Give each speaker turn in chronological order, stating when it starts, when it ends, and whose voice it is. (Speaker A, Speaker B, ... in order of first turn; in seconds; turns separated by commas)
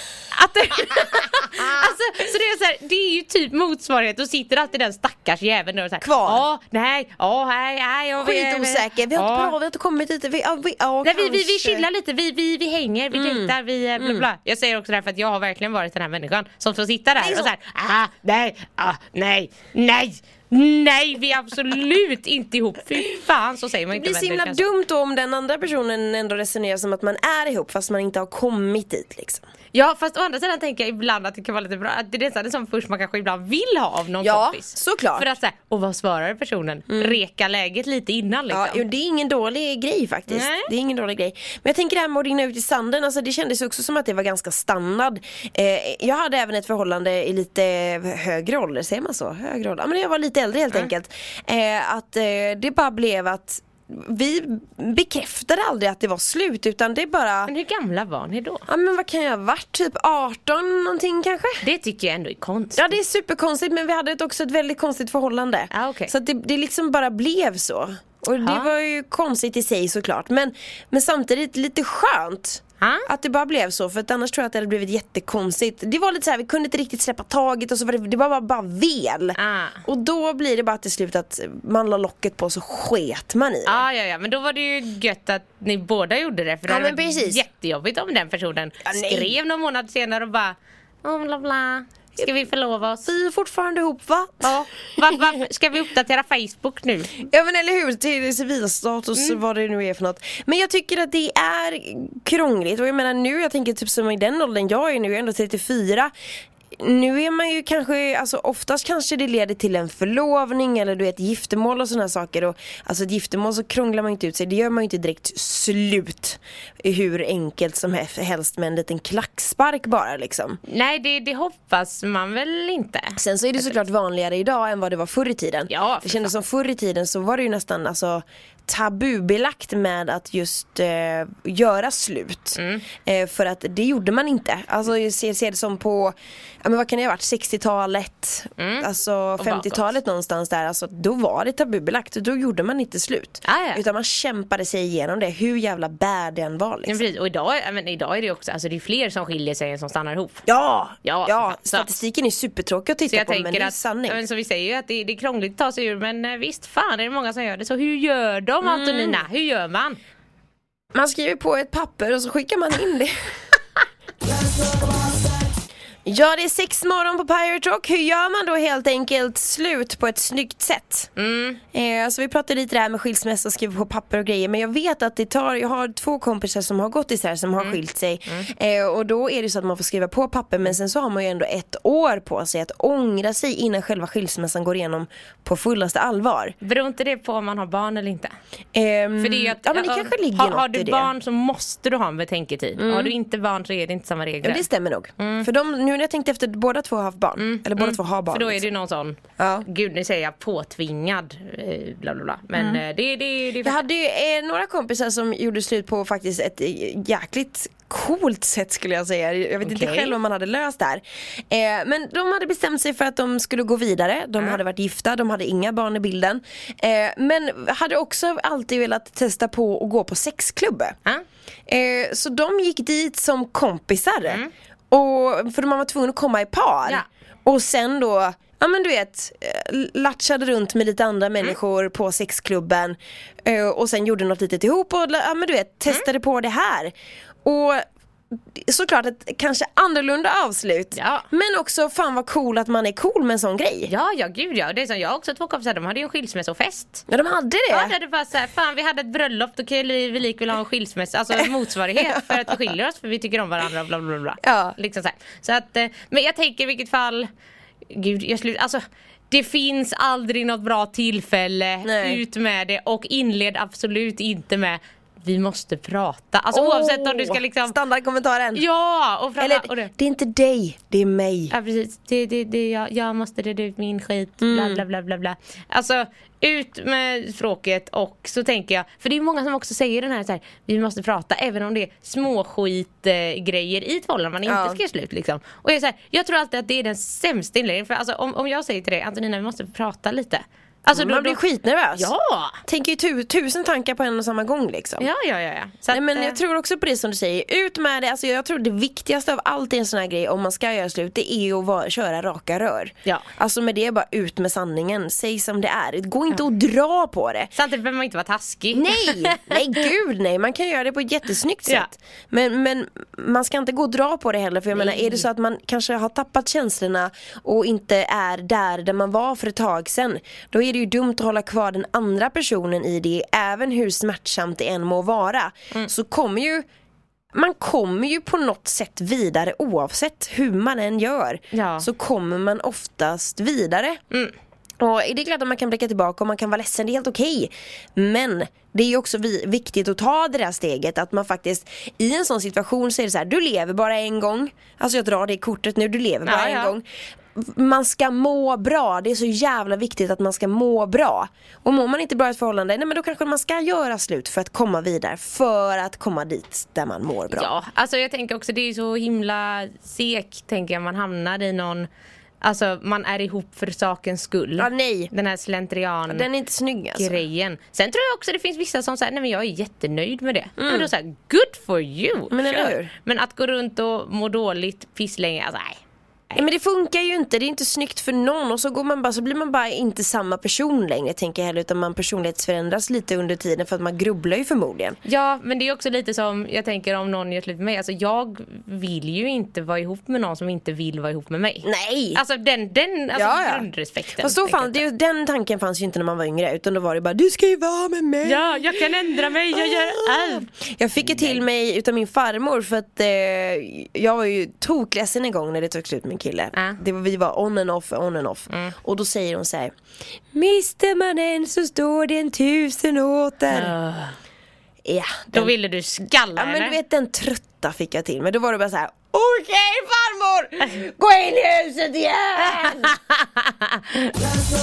Speaker A: 0.3-9.5, Speaker B: 6.0-6.5, Speaker B: 8.2-11.9, Speaker A: 11.0-24.7, Speaker B: 13.1-14.3, Speaker B: 17.2-17.5, Speaker B: 23.9-29.4, Speaker A: 29.7-38.8, Speaker B: 34.2-35.3, Speaker B: 36.9-37.2, Speaker B: 38.5-57.5, Speaker A: 40.3-40.7, Speaker A: 57.5-58.6, Speaker B: 58.7-61.6, Speaker A: 61.6-63.0, Speaker B: 62.8-83.9, Speaker A: 65.7-66.1, Speaker A: 68.4-68.7, Speaker A: 72.8-73.1, Speaker A: 79.4-79.8, Speaker A: 83.7-93.1, Speaker B: 86.7-87.4, Speaker B: 88.8-89.4, Speaker B: 93.0-94.6, Speaker A: 94.4-97.1, Speaker B: 97.2-106.1, Speaker B: 106.8-120.6, Speaker A: 120.7-123.2, Speaker B: 123.2-147.0, Speaker A: 125.7-126.3, Speaker A: 132.6-132.9, Speaker A: 138.6-139.9, Speaker A: 143.4-143.8, Speaker A: 146.9-150.4, Speaker B: 150.5-154.2, Speaker A: 151.0-151.9, Speaker A: 153.1-160.0, Speaker B: 158.6-159.2, Speaker B: 160.9-163.1, Speaker B: 166.1-171.1, Speaker A: 171.2-171.6, Speaker B: 171.7-186.6, Speaker A: 177.6-178.5, Speaker A: 186.6-188.3, Speaker B: 188.8-191.1, Speaker A: 189.2-194.7, Speaker B: 192.8-193.2, Speaker B: 194.4-198.7, Speaker A: 195.2-195.5, Speaker A: 197.4-203.8, Speaker B: 199.4-199.7, Speaker B: 202.6-202.8, Speaker B: 203.6-221.0, Speaker A: 209.6-210.2, Speaker B: 221.7-236.9, Speaker B: 237.4-237.8, Speaker B: 238.6-243.9, Speaker A: 240.9-241.3, Speaker A: 243.9-247.1, Speaker B: 247.1-248.0, Speaker A: 247.7-257.3, Speaker B: 252.0-252.4, Speaker B: 254.4-254.8, Speaker A: 257.9-267.8, Speaker B: 261.8-262.2, Speaker B: 266.5-268.6, Speaker A: 268.6-269.9, Speaker B: 269.4-271.5, Speaker A: 271.5-291.4, Speaker B: 274.4-274.8, Speaker B: 284.4-284.8, Speaker B: 290.9-292.1, Speaker A: 291.9-292.6, Speaker B: 292.7-295.1, Speaker A: 295.0-296.4, Speaker B: 295.9-307.5, Speaker A: 307.6-309.9, Speaker B: 308.7-326.6, Speaker A: 314.7-315.3, Speaker B: 327.3-334.0, Speaker A: 331.5-331.9, Speaker B: 334.8-357.5, Speaker A: 346.3-346.7, Speaker A: 357.3-361.9, Speaker A: 362.4-366.3, Speaker B: 364.6-365.1, Speaker B: 366.1-367.2, Speaker A: 367.0-376.4, Speaker B: 370.6-370.9, Speaker B: 372.3-372.9, Speaker B: 376.4-385.0, Speaker A: 385.0-394.8, Speaker B: 391.6-392.2, Speaker B: 393.1-393.7, Speaker B: 394.2-409.7, Speaker A: 398.2-400.5, Speaker A: 401.0-401.4, Speaker A: 408.5-408.8, Speaker B: 410.3-413.8, Speaker A: 413.5-414.2, Speaker B: 414.9-415.5, Speaker A: 415.3-416.8, Speaker B: 416.3-422.9, Speaker A: 422.5-423.8